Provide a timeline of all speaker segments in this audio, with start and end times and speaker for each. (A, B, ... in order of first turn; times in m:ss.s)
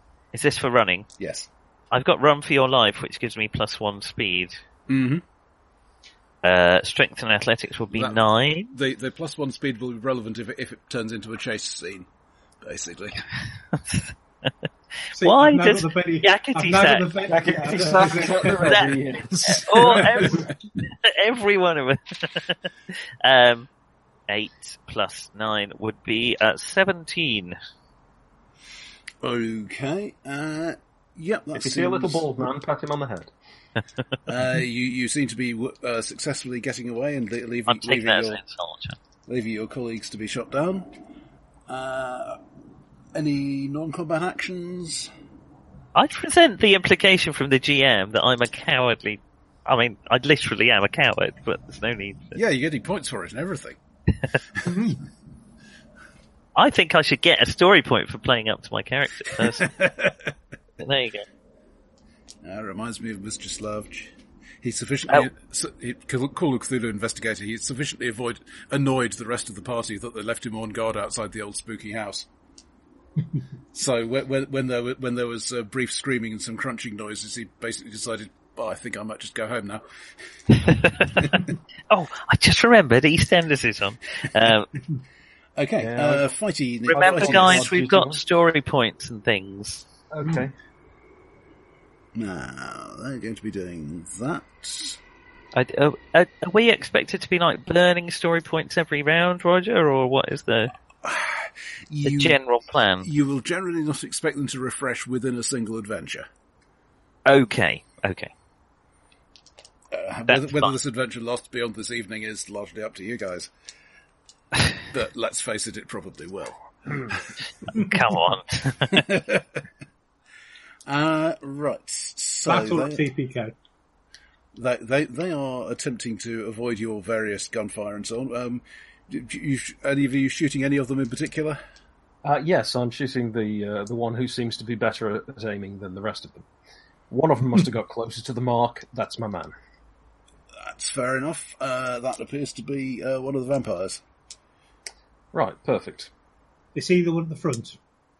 0:00.3-0:01.1 A
0:01.2-0:01.5 B
0:01.9-0:04.6 A
0:04.9-0:05.2 B
0:06.4-0:08.7 A
0:07.9-0:08.2 B
0:08.7-0:12.1 B
0:12.6-0:13.2 B
0:13.7-0:14.1 A
0:15.1-0:17.1 A
0:15.2-0:18.9 C
0:17.2-0:20.5 D
0:18.4-0:23.7 A
0:24.3-0:27.6 A
0:29.2-0:32.3 B
0:31.5-0:33.3 D
0:34.3-0:38.4 B
0:37.7-0:39.0 A
0:39.3-0:40.9 B
0:41.7-0:42.4 B
0:43.1-0:45.1 B
0:46.0-0:52.4 A
0:52.4-0:53.8 B
0:54.6-0:55.0 C
0:56.6-0:59.8 A
0:59.6-1:00.3 B
1:00.8-1:01.2 A
1:02.4-1:12.3 B
1:13.7-1:19.8 B
1:20.5-1:24.7 A
1:25.6-1:27.8 B
1:25.8-1:26.3 D
1:26.9-1:29.8 A
1:26.9-1:28.2 D
1:30.1-1:30.5 D
1:32.2-1:35.0 B
1:35.5-1:40.7 A
1:41.0-1:42.4 B
1:42.0-1:43.1 A
1:43.0-1:46.3 B
1:47.3-1:48.3 A
1:49.9-1:53.5 B
1:50.3-1:50.7 A
1:54.9-1:57.2 B
1:57.7-1:59.1 A
1:58.9-1:59.6 B
2:00.9-2:03.0 B
2:02.5-2:03.6 C
2:04.6-2:11.6 B
2:12.2-2:16.5 D
2:17.1-2:19.6 D
2:20.6-2:24.0 B
2:25.3-2:26.1 D
2:26.8-2:27.8 C